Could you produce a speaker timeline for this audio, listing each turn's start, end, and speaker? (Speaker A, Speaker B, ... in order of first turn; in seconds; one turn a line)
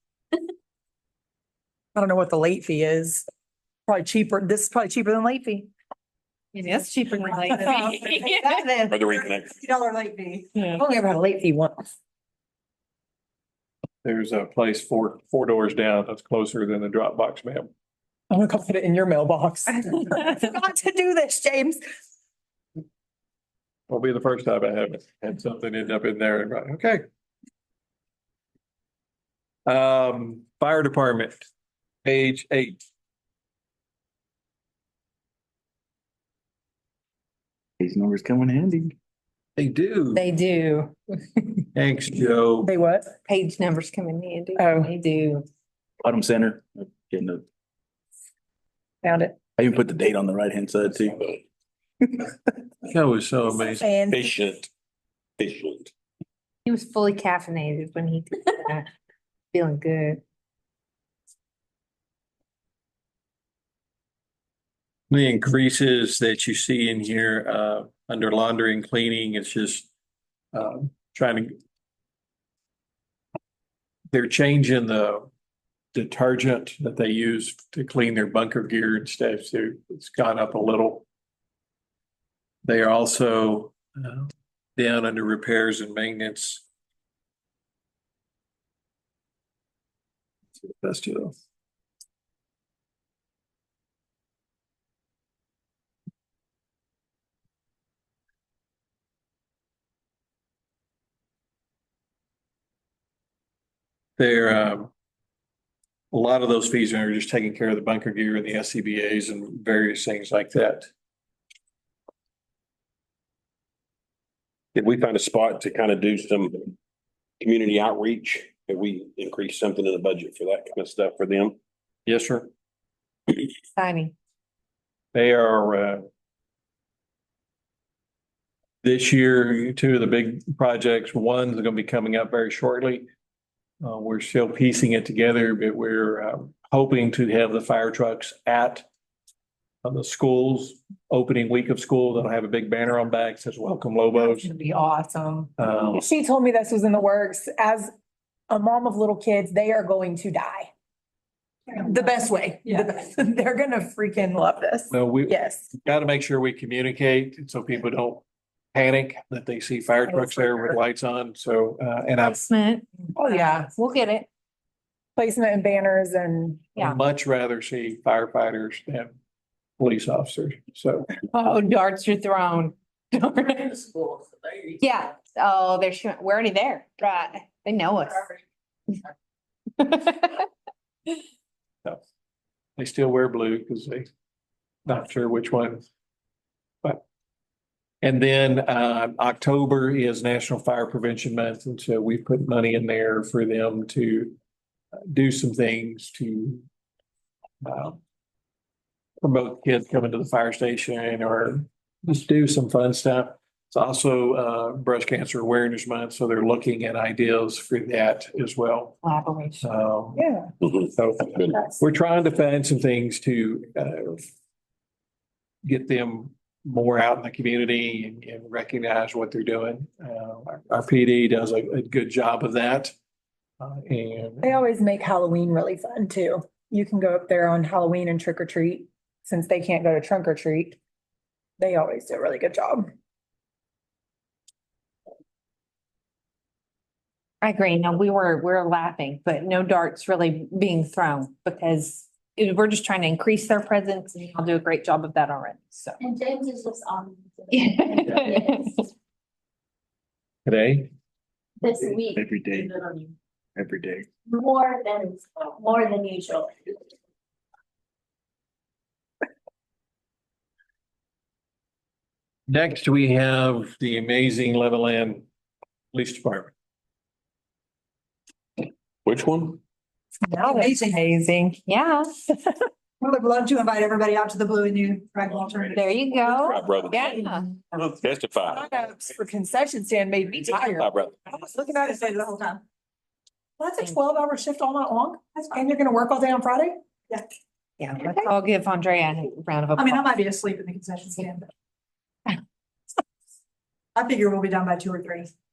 Speaker A: 1.9-3.2
Speaker A: 3.9-5.7
Speaker B: 6.5-8.3
Speaker C: 7.3-10.8
Speaker A: 7.4-8.0
Speaker D: 8.9-9.6
Speaker A: 10.7-11.8
Speaker E: 14.0-17.7
Speaker A: 18.3-21.8
Speaker E: 23.9-27.0
Speaker E: 29.6-31.4
Speaker E: 32.0-32.8
Speaker F: 37.8-38.9
Speaker E: 39.5-40.2
Speaker B: 40.1-41.6
Speaker E: 41.7-42.7
Speaker A: 42.6-43.1
Speaker B: 43.2-45.5
Speaker A: 44.6-44.9
Speaker F: 46.0-47.4
Speaker A: 49.0-49.4
Speaker F: 49.6-51.4
Speaker E: 52.9-53.9
Speaker A: 53.8-54.2
Speaker D: 54.1-54.7
Speaker D: 55.4-55.9
Speaker B: 56.6-58.9
Speaker B: 59.5-60.2
Speaker E: 65.1-69.9
Speaker E: 70.5-71.5
Speaker E: 74.1-75.3
Speaker E: 75.9-81.0
Speaker E: 82.6-86.6
Speaker E: 90.7-91.3
Speaker E: 104.2-104.9
Speaker E: 106.1-110.9
Speaker D: 114.7-116.7
Speaker D: 117.4-121.5
Speaker E: 122.0-122.5
Speaker B: 123.7-124.1
Speaker E: 125.1-126.0
Speaker E: 128.8-133.1
Speaker E: 133.8-138.8
Speaker E: 139.8-144.5
Speaker A: 144.1-147.9
Speaker E: 145.6-146.0
Speaker A: 148.5-150.7
Speaker A: 151.7-155.7
Speaker E: 154.9-162.4
Speaker B: 162.2-164.3
Speaker A: 163.1-163.7
Speaker A: 165.2-166.6
Speaker E: 166.8-169.2
Speaker E: 169.8-171.1
Speaker B: 171.3-174.1
Speaker B: 174.8-178.3
Speaker B: 179.8-180.5
Speaker E: 182.8-184.1
Speaker E: 184.8-185.8
Speaker E: 188.0-194.3
Speaker E: 195.1-196.6
Speaker E: 197.6-198.0
Speaker E: 199.2-209.0
Speaker B: 209.0-209.7
Speaker E: 209.6-210.2
Speaker A: 210.2-210.5
Speaker E: 210.8-214.3
Speaker E: 215.6-222.9
Speaker E: 223.6-224.6
Speaker A: 224.4-230.8
Speaker A: 231.6-232.9
Speaker B: 237.4-246.0
Speaker G: 246.0-248.7
Speaker B: 247.5-248.8
Speaker E: 250.4-250.9
Speaker G: 251.6-253.1
Speaker F: 252.1-252.8
Speaker F: 253.6-254.1
Speaker G: 254.3-256.7
Speaker E: 262.5-265.2
Speaker E: 265.9-266.5
Speaker D: 269.1-269.6
Speaker A: 270.3-270.9
Speaker C: 270.4-271.0
Speaker B: 271.3-272.3
Speaker C: 273.0-276.2
Speaker B: 275.7-277.5
Speaker D: 276.2-277.2
Speaker C: 276.9-277.4
Speaker D: 277.7-278.7
Speaker A: 278.4-282.0
Speaker D: 280.4-281.4
Speaker C: 281.5-282.6
Speaker A: 283.6-286.7
Speaker B: 287.8-290.1
Speaker C: 289.8-291.5
Speaker C: 293.9-295.3